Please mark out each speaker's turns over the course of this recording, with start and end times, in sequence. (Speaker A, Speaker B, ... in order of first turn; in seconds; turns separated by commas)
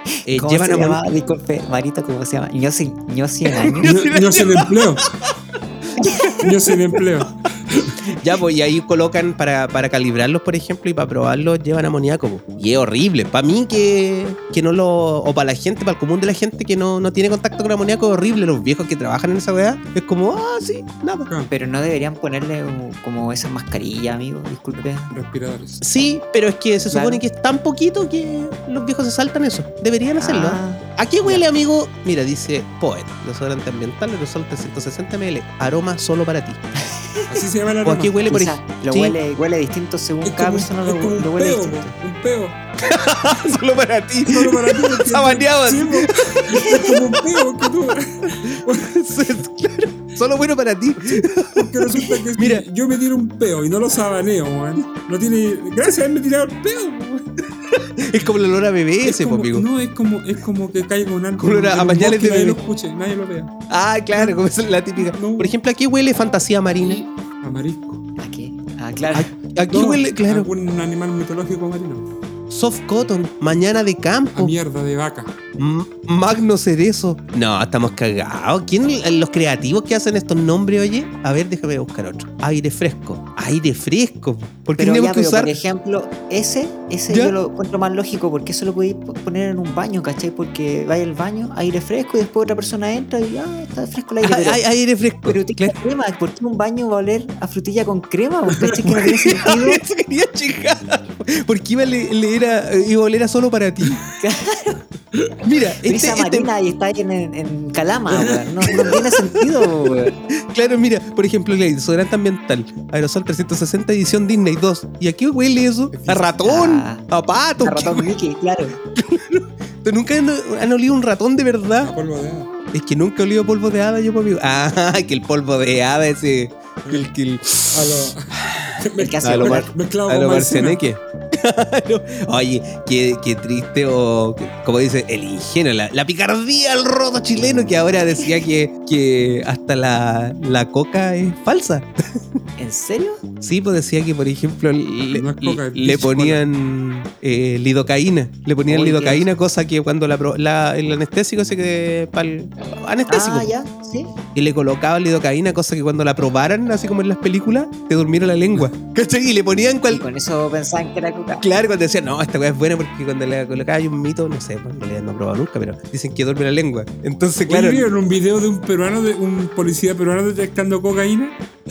Speaker A: 0.2-1.0, Speaker B: 0.3-3.9, Speaker A: 3.6-5.3, Speaker C: 3.8-5.0, Speaker A: 6.0-6.4, Speaker C: 6.4-8.0, Speaker A: 8.2-21.3, Speaker B: 21.5-25.1, Speaker C: 24.8-25.8, Speaker A: 25.8-36.6, Speaker B: 26.9-27.2, Speaker B: 30.2-31.4, Speaker B: 36.8-37.3, Speaker C: 37.3-38.4, Speaker A: 37.8-39.2, Speaker B: 38.3-41.9, Speaker C: 40.2-42.6, Speaker A: 42.8-46.9, Speaker C: 44.2-49.0, Speaker A: 48.5-52.6, Speaker C: 51.5-57.3, Speaker A: 58.0-59.7, Speaker C: 59.0-63.5, Speaker A: 61.4-62.6, Speaker A: 63.7-67.0, Speaker C: 64.1-64.4, Speaker C: 65.0-65.5, Speaker C: 66.8-68.0, Speaker B: 68.2-69.3, Speaker A: 69.1-70.5, Speaker C: 69.7-72.1, Speaker A: 72.5-74.5, Speaker C: 74.3-75.3, Speaker A: 75.6-85.5, Speaker B: 84.8-94.6, Speaker A: 87.1-87.3, Speaker A: 94.2-95.7, Speaker B: 95.3-99.8, Speaker C: 98.6-98.9, Speaker A: 99.4-104.0, Speaker B: 104.2-104.8, Speaker A: 105.4-106.5, Speaker B: 105.8-110.1, Speaker C: 108.1-108.7, Speaker A: 110.5-118.1, Speaker C: 115.9-116.3, Speaker B: 116.4-117.1, Speaker B: 117.6-118.8, Speaker A: 118.9-121.9, Speaker C: 121.8-122.5, Speaker A: 122.7-141.9, Speaker C: 127.7-130.8, Speaker B: 129.0-129.7, Speaker B: 142.6-143.2, Speaker A: 143.4-153.5, Speaker C: 145.1-146.4, Speaker B: 148.7-149.3, Speaker B: 153.1-154.1, Speaker A: 154.3-160.0, Speaker B: 159.9-161.4, Speaker A: 161.4-167.9, Speaker C: 167.5-171.4